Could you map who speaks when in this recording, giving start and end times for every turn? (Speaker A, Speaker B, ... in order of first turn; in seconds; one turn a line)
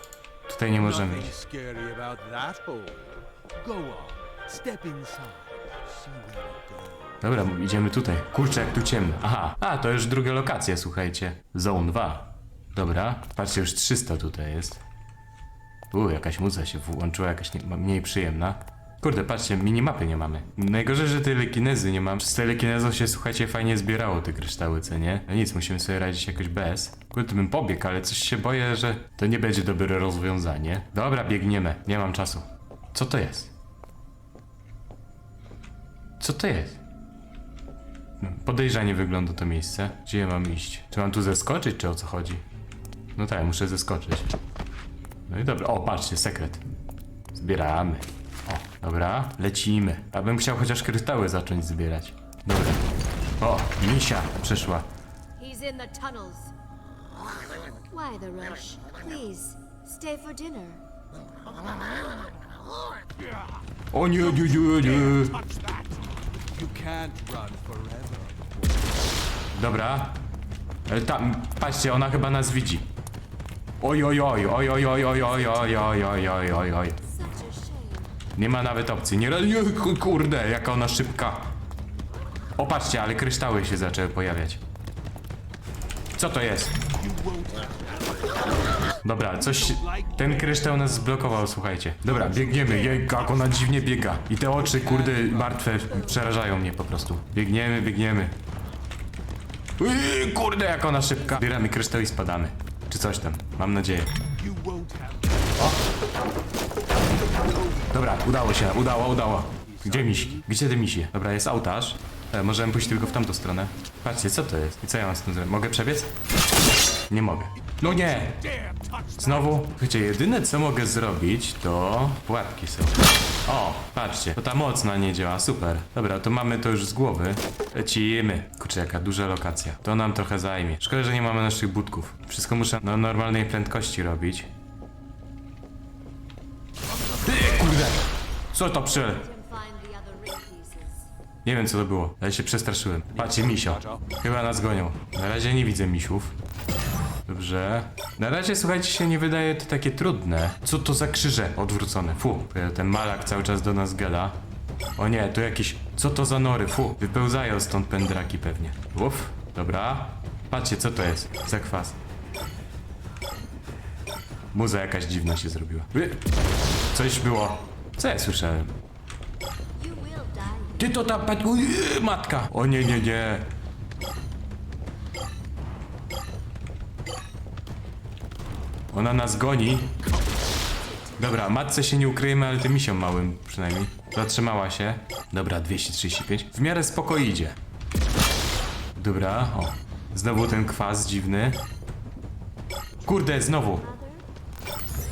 Speaker A: 0.5-1.3
Speaker B: 0.8-7.2
Speaker A: 7.2-14.8
Speaker A: 15.9-33.5
Speaker A: 36.2-36.8
Speaker A: 38.2-42.4
Speaker A: 43.1-44.3
Speaker A: 45.3-46.6
Speaker A: 47.3-52.8
Speaker A: 53.4-54.9
Speaker C: 55.4-56.5
Speaker C: 57.9-60.8
Speaker A: 63.9-65.4
Speaker B: 64.2-69.1
Speaker A: 69.5-70.2
Speaker A: 70.9-72.9
Speaker A: 73.8-77.0
Speaker C: 77.0-78.2
Speaker A: 78.3-81.5
Speaker A: 82.6-84.6
Speaker A: 86.2-86.8
Speaker B: 86.8-88.8
Speaker A: 89.0-98.3
Speaker B: 89.4-91.3
Speaker B: 92.1-95.9
Speaker A: 99.8-104.2
Speaker B: 104.3-105.7
Speaker B: 106.9-107.9
Speaker A: 107.9-116.1
Speaker B: 109.5-110.5
Speaker A: 117.1-118.4
Speaker B: 117.8-119.6
Speaker A: 119.2-134.5
Speaker B: 137.0-137.9
Speaker A: 137.2-139.2
Speaker C: 138.9-141.1
Speaker A: 141.4-146.3
Speaker B: 143.1-144.1
Speaker A: 147.2-154.4
Speaker A: 155.0-162.0
Speaker A: 164.5-166.2
Speaker A: 166.9-168.7
Speaker C: 169.7-170.9
Speaker A: 170.8-173.5
Speaker A: 178.9-179.9
Speaker C: 180.7-181.7
Speaker A: 181.2-187.6
Speaker A: 188.9-191.6
Speaker A: 193.0-193.9
Speaker C: 193.4-194.2